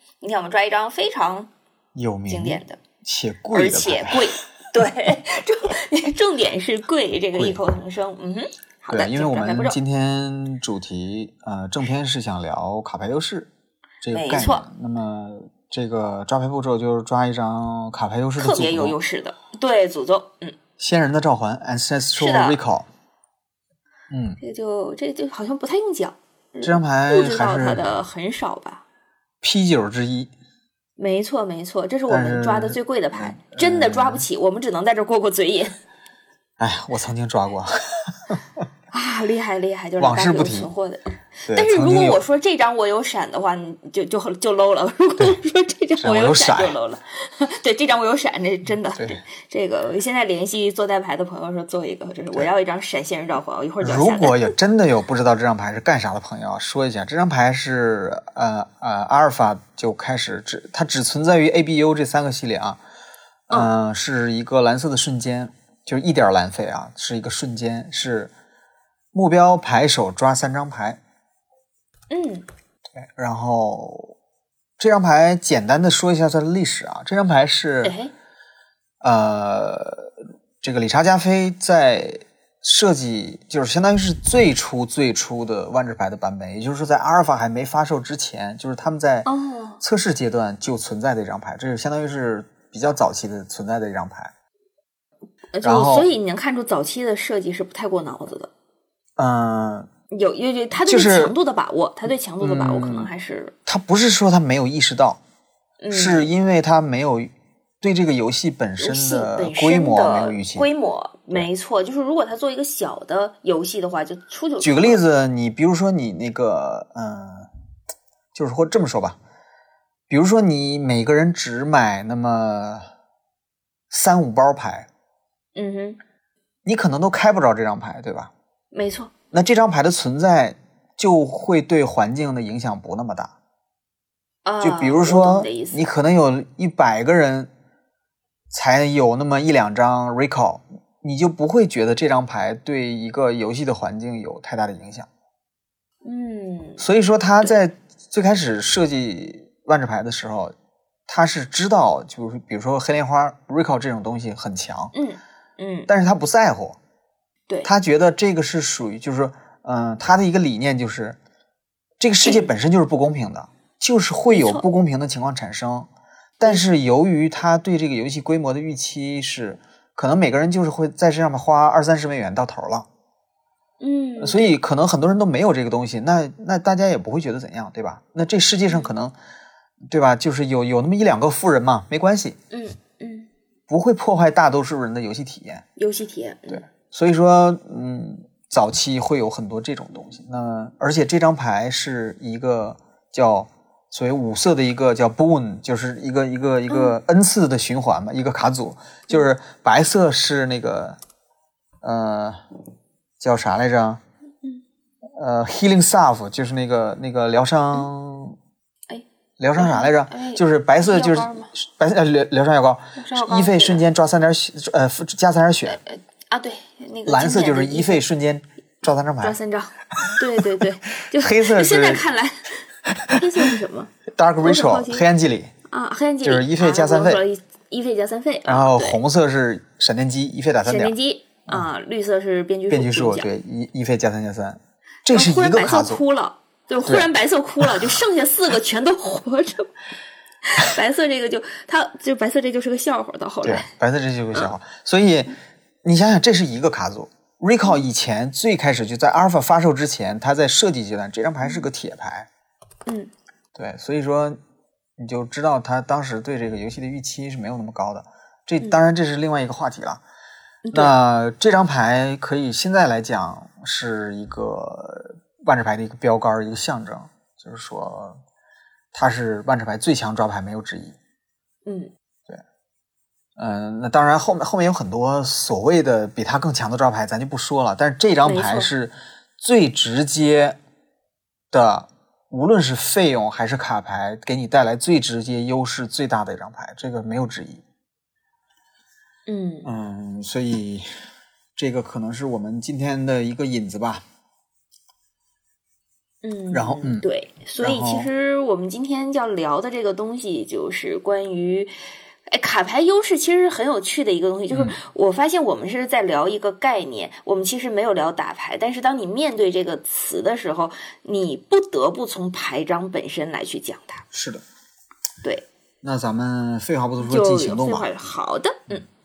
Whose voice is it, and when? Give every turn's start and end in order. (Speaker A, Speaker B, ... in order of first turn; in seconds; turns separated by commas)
Speaker A: 0.2-1.5, Speaker B: 1.9-4.3, Speaker A: 2.3-2.8, Speaker A: 3.5-9.8, Speaker B: 7.3-7.6, Speaker B: 8.9-13.5, Speaker B: 14.0-19.0, Speaker A: 14.1-14.6, Speaker A: 18.4-20.6, Speaker B: 20.8-22.9, Speaker A: 22.1-22.6, Speaker B: 24.1-24.4, Speaker A: 24.4-28.8, Speaker B: 26.6-27.9, Speaker B: 29.4-30.3, Speaker A: 31.0-35.7, Speaker B: 32.1-34.2, Speaker B: 36.6-38.4, Speaker A: 38.9-54.5, Speaker B: 40.0-40.7, Speaker B: 41.4-42.2, Speaker B: 46.0-46.8, Speaker B: 48.9-49.2, Speaker B: 53.8-62.8, Speaker B: 63.5-68.3, Speaker B: 69.1-71.0, Speaker A: 72.1-72.5, Speaker B: 73.0-74.1, Speaker B: 74.8-78.0, Speaker A: 77.8-78.1, Speaker B: 79.0-89.3, Speaker A: 89.2-89.8, Speaker B: 89.8-94.3, Speaker A: 95.5-98.5, Speaker B: 95.6-96.1, Speaker B: 99.2-99.9, Speaker A: 100.1-103.5, Speaker B: 100.8-101.3, Speaker B: 102.4-103.1, Speaker B: 103.7-105.2, Speaker A: 105.8-106.3, Speaker B: 105.9-110.7, Speaker A: 108.8-115.0, Speaker B: 114.6-117.5, Speaker B: 118.3-119.2, Speaker B: 120.1-122.9, Speaker B: 123.9-124.9, Speaker A: 125.5-126.0, Speaker B: 126.7-128.3, Speaker A: 128.7-129.1, Speaker B: 129.3-133.3, Speaker A: 134.4-135.8, Speaker B: 134.6-137.5, Speaker B: 138.5-145.1, Speaker A: 146.0-146.8, Speaker B: 146.8-150.5, Speaker B: 151.1-154.9, Speaker A: 154.9-155.9, Speaker B: 155.9-156.8, Speaker B: 157.6-161.2, Speaker B: 162.0-165.9, Speaker A: 162.2-162.5, Speaker A: 164.3-164.6, Speaker B: 166.4-172.9, Speaker A: 173.8-174.5, Speaker B: 174.2-179.1, Speaker B: 179.9-182.4, Speaker A: 182.5-183.3, Speaker B: 183.7-185.6, Speaker A: 185.8-186.6, Speaker B: 186.5-201.0, Speaker A: 196.7-196.9, Speaker B: 201.8-202.4, Speaker B: 203.2-204.0, Speaker B: 205.2-208.3, Speaker B: 209.4-215.8, Speaker A: 209.6-211.5, Speaker A: 212.9-213.8, Speaker A: 215.7-218.0, Speaker B: 217.1-219.4, Speaker A: 219.2-223.9, Speaker B: 221.1-222.0, Speaker B: 224.1-225.5, Speaker A: 224.4-225.0, Speaker A: 225.7-229.0, Speaker B: 226.2-227.2, Speaker B: 228.4-230.9, Speaker A: 230.6-233.3, Speaker B: 232.7-236.0, Speaker A: 235.1-239.7, Speaker B: 236.8-237.1, Speaker B: 237.6-238.0, Speaker A: 240.4-243.7, Speaker B: 243.4-252.3, Speaker A: 252.8-253.1, Speaker B: 253.5-254.4, Speaker B: 255.0-260.0, Speaker A: 260.6-260.9, Speaker B: 260.7-268.2, Speaker B: 268.9-270.9, Speaker A: 271.6-271.9, Speaker B: 273.4-280.6, Speaker A: 278.2-278.7, Speaker B: 281.5-287.6, Speaker A: 289.3-289.7, Speaker B: 289.6-290.9, Speaker B: 291.6-294.0, Speaker A: 296.2-301.7, Speaker B: 296.5-297.1, Speaker B: 297.6-298.1, Speaker A: 302.3-314.0, Speaker B: 304.5-304.8, Speaker B: 314.1-314.4, Speaker B: 315.8-317.9, Speaker A: 317.0-318.8